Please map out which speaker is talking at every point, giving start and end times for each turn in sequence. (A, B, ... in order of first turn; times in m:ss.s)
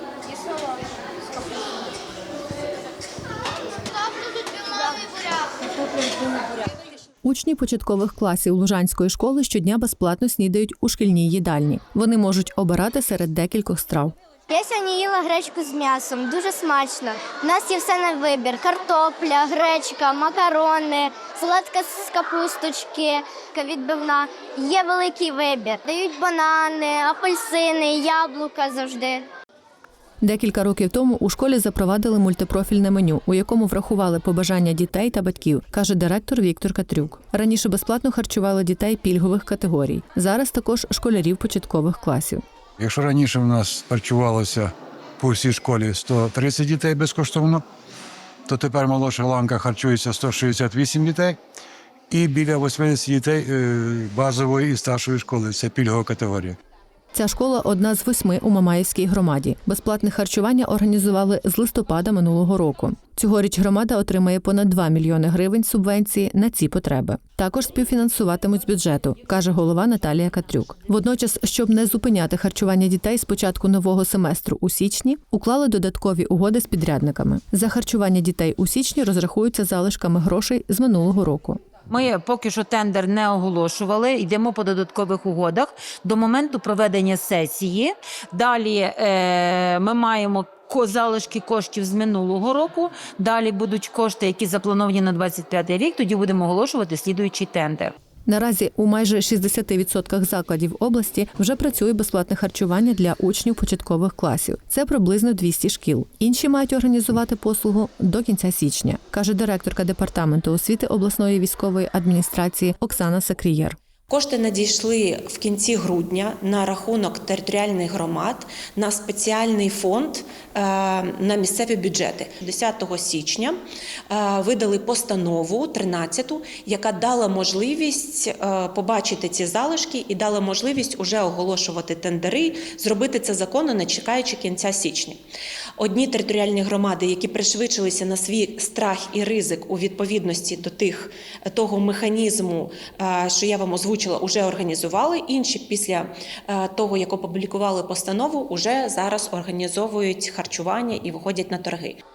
0:04.2-0:05.4 A
0:07.2-0:14.2 B
0:14.5-0:29.2 A
0:30.2-0:42.4 B
0:42.8-0:44.7 C
0:45.2-0:47.6 C
0:48.5-0:51.4 C
0:52.1-0:56.5 C
0:57.1-1:21.6 B
1:21.9-1:38.0 D
1:38.3-1:53.8 B
1:54.1-2:03.6 E
2:04.1-2:15.2 E
2:15.8-2:32.0 E